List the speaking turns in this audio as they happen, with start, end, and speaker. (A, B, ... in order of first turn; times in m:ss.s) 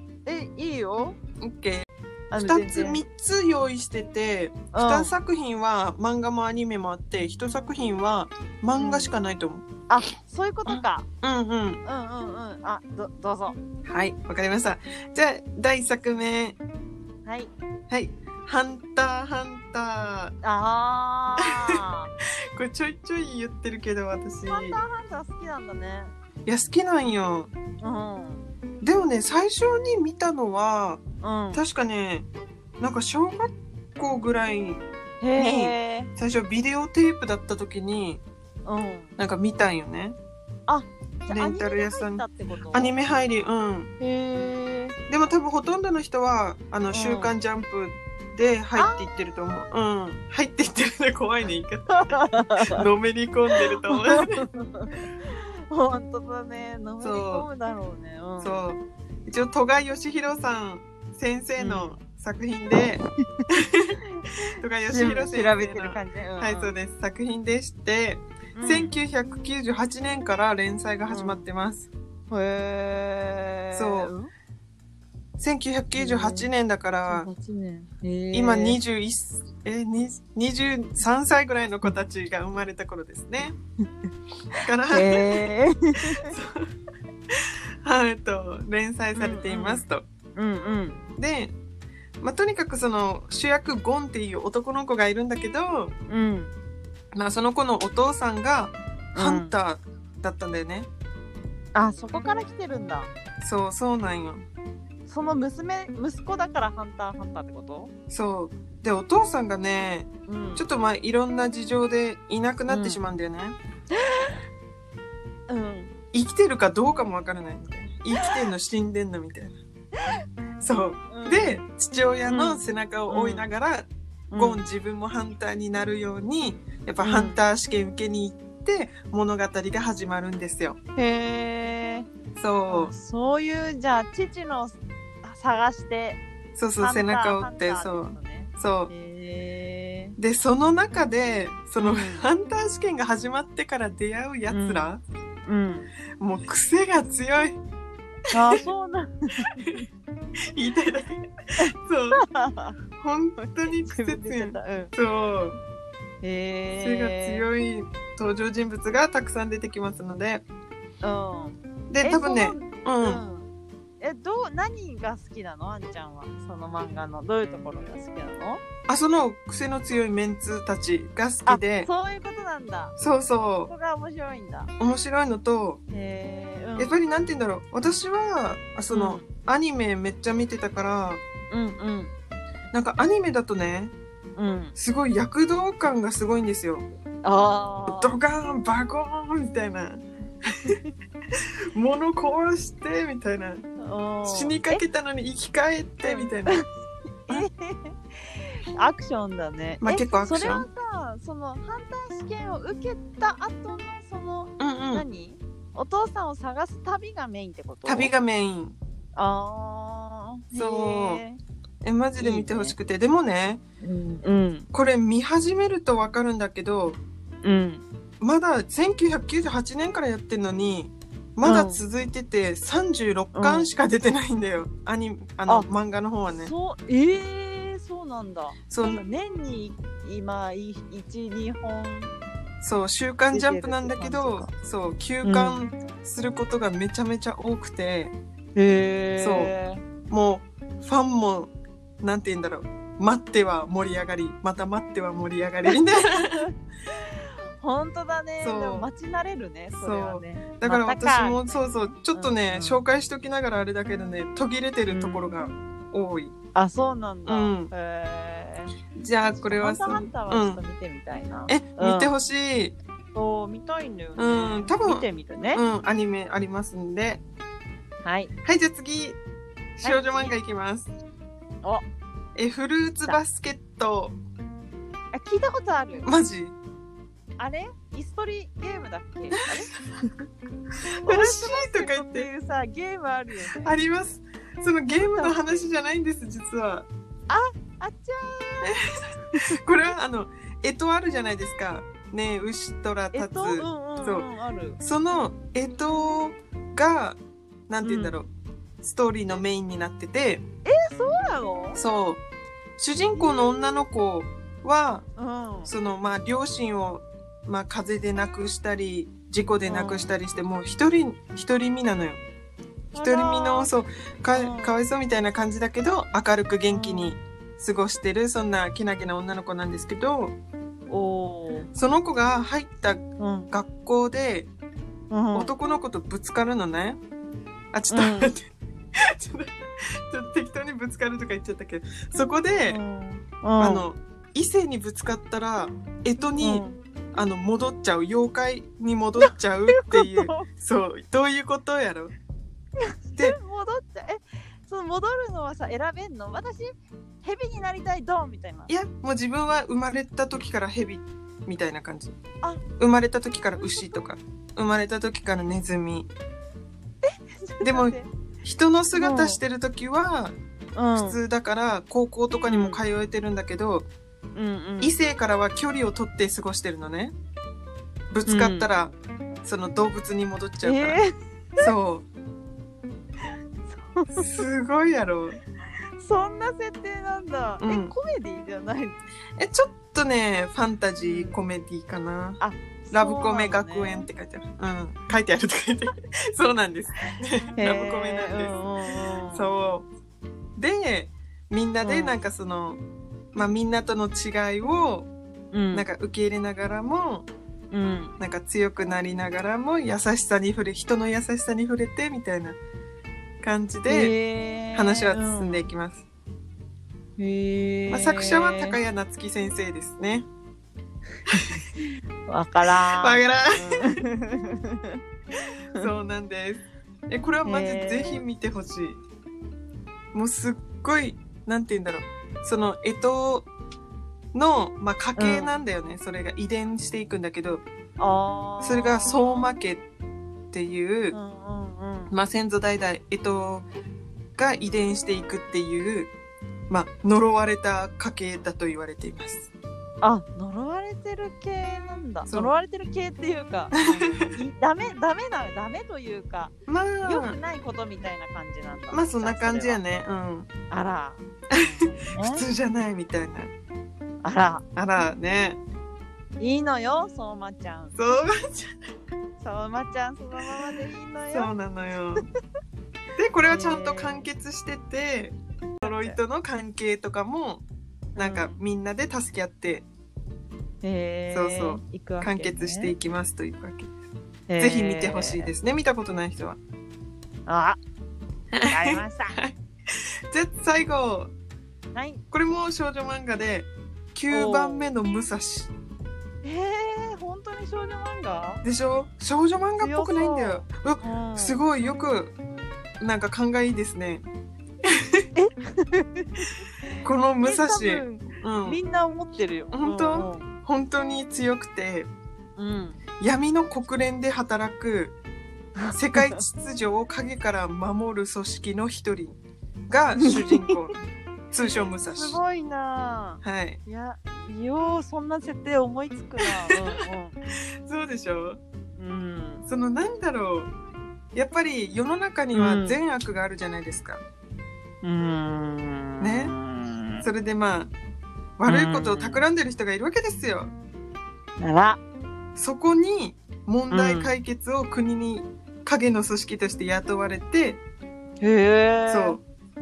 0:00.2-0:01.2 A
0:01.4-0:09.7 B
0:02.3-0:03.0 A
0:04.7-0:05.1 A
0:08.8-0:09.1 A
0:09.9-0:11.1 A
0:10.7-0:11.8 B
0:11.8-0:13.6 A
0:13.8-0:16.6 B
0:17.2-0:17.5 A
0:17.9-0:20.4 B
0:20.4-0:22.1 A
0:21.4-0:24.8 B
0:24.5-0:26.1 A
0:26.5-0:27.5 B
0:27.8-0:28.4 A
0:28.8-0:31.0 B
0:31.2-0:31.6 A
0:31.5-0:32.3 B
0:32.8-0:34.8 B
0:35.2-0:36.1 A
0:35.4-0:38.2 B
0:38.6-0:39.1 A
0:39.2-0:40.2 B
0:40.7-0:42.9 A
0:41.3-0:43.9 B
0:44.0-0:45.0 A
0:45.1-0:54.5 B
0:46.9-0:47.3 A
0:48.8-0:49.7 A
0:51.9-0:52.8 A
0:53.6-0:58.6 A
0:57.0-0:57.5 B
0:58.4-1:04.0 B
1:01.6-1:02.0 A
1:04.5-1:11.9 B
1:04.9-1:06.7 A
1:08.5-1:08.9 A
1:11.1-1:11.4 A
1:12.3-1:14.3 A
1:13.7-1:14.1 B
1:15.4-1:17.3 B
1:16.0-1:16.5 A
1:17.1-1:18.8 A
1:18.3-1:23.6 B
1:24.5-1:26.3 A
1:24.6-1:25.5 B
1:26.0-1:26.7 B
1:27.3-1:30.0 B
1:29.2-1:31.0 A
1:31.2-1:31.5 B
1:32.2-1:35.9 B
1:36.1-1:36.5 A
1:37.2-1:40.9 B
1:39.2-1:39.5 A
1:41.7-1:43.1 A
1:43.4-1:44.5 B
1:45.1-1:47.9 A
1:48.1-1:53.6 B
1:50.3-1:50.7 A
1:52.7-1:53.0 A
1:53.9-1:54.4 A
1:55.5-1:55.9 A
1:56.1-1:59.6 B
2:00.6-2:10.8 B
2:01.1-2:01.6 A
2:02.3-2:03.5 A
2:04.3-2:04.6 A
2:07.0-2:07.4 A
2:11.0-2:12.1 A
2:12.4-2:12.9 B
2:12.7-2:16.2 A
2:16.6-2:18.9 B
2:16.8-2:20.2 A
2:20.2-2:25.0 B
2:21.8-2:22.3 A
2:24.5-2:24.9 A
2:25.5-2:25.9 A
2:26.2-2:27.6 B
2:28.3-2:29.8 A
2:30.5-2:32.2 B
2:31.6-2:32.8 A
2:33.0-2:35.6 B
2:33.4-2:34.9 A
2:36.2-2:37.5 A
2:36.8-2:40.4 B
2:41.0-2:43.5 A
2:41.9-2:43.2 B
2:44.0-2:48.6 A
2:48.9-2:51.9 B
2:51.5-2:53.0 A
2:53.0-2:53.7 B
2:53.7-2:54.7 A
2:54.8-2:55.8 B
2:55.9-2:57.0 A
2:56.8-3:01.2 B
2:58.9-2:59.2 A
3:01.5-3:02.1 A
3:02.7-3:03.9 B
3:04.4-3:04.7 A
3:04.8-3:06.8 B
3:07.2-3:08.2 A
3:07.9-3:10.8 B
3:10.5-3:10.9 A
3:11.3-3:13.6 B
3:13.8-3:14.8 A
3:14.2-3:16.6 B
3:16.0-3:16.6 A
3:17.3-3:28.1 A
3:19.8-3:20.7 B
3:24.6-3:25.0 B
3:27.8-3:28.8 B
3:29.2-3:31.4 A
3:30.5-3:31.2 B
3:31.8-3:33.6 B
3:32.2-3:32.8 A
3:33.8-3:34.7 A
3:34.7-3:37.0 B
3:37.4-3:37.8 A
3:38.2-3:46.5 B
3:41.4-3:41.8 A
3:43.3-3:43.7 A
3:46.3-3:52.1 A
3:48.7-3:49.0 B
3:52.6-3:58.1 B
3:53.3-3:54.5 A
3:55.2-3:55.7 A
3:58.5-3:59.8 A
3:59.2-3:59.5 B
4:00.1-4:06.5 B
4:05.7-4:12.8 A
4:08.4-4:08.9 B
4:09.8-4:16.3 B
4:14.9-4:15.3 A
4:16.5-4:18.8 A
4:17.2-4:17.7 B
4:19.0-4:20.6 B
4:19.3-4:22.1 A
4:21.5-4:22.8 B
4:23.1-4:25.6 A
4:24.2-4:27.2 B
4:28.0-4:28.3 A
4:28.4-4:29.2 B
4:29.8-4:30.9 B
4:29.8-4:30.4 A
4:32.4-4:34.2 B
4:35.1-4:36.1 A
4:36.0-4:36.6 B
4:37.4-4:39.8 A
4:40.9-4:42.3 B
4:41.0-4:43.8 A
4:43.6-4:46.9 B
4:44.9-4:45.7 A
4:47.3-4:48.8 A
4:48.6-4:54.2 B
4:49.3-4:49.6 A
4:53.1-4:54.8 A
4:54.8-4:57.2 B
4:57.7-4:58.3 B
4:57.8-4:58.1 A
4:58.8-5:00.4 B
5:00.6-5:01.8 A
5:01.8-5:02.2 B
5:02.8-5:05.1 B
5:03.1-5:03.8 A
5:05.2-5:05.7 A
5:05.6-5:12.2 B
5:09.6-5:10.1 A
5:12.9-5:13.7 A
5:13.0-5:20.4 B
5:14.3-5:14.8 A
5:16.7-5:17.2 A
5:20.9-5:21.7 A
5:21.8-5:24.5 B
5:23.2-5:23.5 A
5:25.1-5:25.5 A
5:25.3-5:27.0 B
5:27.7-5:32.8 B
5:27.9-5:28.3 A
5:32.7-5:33.9 A
5:33.6-5:42.1 B
5:36.4-5:36.8 A
5:39.2-5:40.5 A
5:42.8-5:46.7 A
5:47.2-5:48.7 A
5:48.7-5:52.2 B
5:52.8-5:56.1 B
5:53.6-5:54.0 A
5:57.0-5:58.1 A
5:57.6-6:00.4 B
5:59.0-5:59.4 A
6:00.8-6:01.2 A
6:01.0-6:03.9 B
6:02.5-6:02.8 A
6:04.4-6:04.9 A
6:04.8-6:07.1 B
6:08.1-6:11.0 B
6:08.2-6:08.7 A
6:10.6-6:11.7 A
6:11.6-6:12.0 B
6:13.7-6:14.3 A
6:14.1-6:15.4 B
6:16.0-6:19.0 A
6:17.6-6:17.9 B
6:19.4-6:22.4 B
6:21.0-6:21.4 A
6:22.4-6:24.1 A
6:22.9-6:29.9 B
6:27.0-6:29.5 A
6:30.6-6:32.8 B
6:31.8-6:32.2 A
6:33.3-6:35.1 B
6:35.5-6:35.9 A
6:35.7-6:37.3 B
6:37.7-6:38.1 A
6:38.2-6:42.6 B
6:43.4-6:44.1 B
6:43.9-6:45.7 A
6:44.7-6:46.0 B
6:47.2-6:48.8 A
6:47.9-6:50.3 B
6:51.3-6:51.6 B
6:51.3-6:55.0 A
6:53.0-6:53.9 B
6:55.8-6:59.0 B
6:57.4-6:58.2 A
7:00.1-7:03.5 B
7:04.3-7:07.6 B
7:05.2-7:05.6 A
7:08.0-7:09.5 A
7:08.6-7:09.8 B
7:10.5-7:11.2 B
7:11.1-7:12.1 A
7:12.1-7:13.7 B
7:14.4-7:16.1 B
7:16.7-7:19.5 B
7:20.0-7:26.5 A
7:23.8-7:24.4 B
7:26.7-7:27.4 B
7:27.1-7:29.8 A
7:28.9-7:30.5 B
7:30.7-7:32.4 A
7:31.5-7:33.5 B
7:34.2-7:34.6 A
7:34.8-7:35.6 B
7:36.4-7:38.0 A
7:38.0-7:38.7 B
7:39.4-7:41.5 A
7:41.3-7:42.2 B
7:43.2-7:47.6 B
7:43.5-7:44.3 A
7:45.8-7:46.2 A
7:48.2-7:48.6 A
7:48.2-7:49.8 B
7:50.8-7:52.9 A
7:51.3-7:53.9 B
7:54.5-7:55.5 A
7:54.6-7:56.6 B
7:57.5-7:57.8 A
7:58.5-8:01.3 B
7:58.7-7:59.4 A
8:01.9-8:02.2 A
8:02.3-8:05.7 B
8:04.3-8:04.9 A
8:06.4-8:08.6 A
8:08.6-8:12.3 B
8:09.8-8:11.6 A
8:13.0-8:14.2 B
8:14.8-8:15.2 B
8:15.4-8:16.6 A
8:17.0-8:18.8 B
8:17.4-8:20.5 A
8:19.7-8:22.1 B
8:22.6-8:23.0 A
8:23.2-8:25.2 B
8:25.8-8:26.4 A
8:25.9-8:29.4 B
8:29.9-8:31.0 B
8:30.2-8:30.8 A
8:31.5-8:32.4 B
8:31.7-8:37.4 A
8:33.4-8:33.8 B
8:36.4-8:36.7 B
8:37.7-8:38.6 B
8:39.0-8:39.6 A
8:39.7-8:40.7 B
8:41.4-8:44.2 B
8:42.5-8:43.0 A
8:45.0-8:47.3 A
8:46.2-8:46.5 B
8:47.2-8:47.9 B
8:48.6-8:50.7 B
8:48.6-8:49.4 A
8:51.6-8:52.0 A
8:52.6-8:57.8 B
8:53.9-8:54.4 A
8:58.4-8:59.4 A
8:59.1-8:59.4 B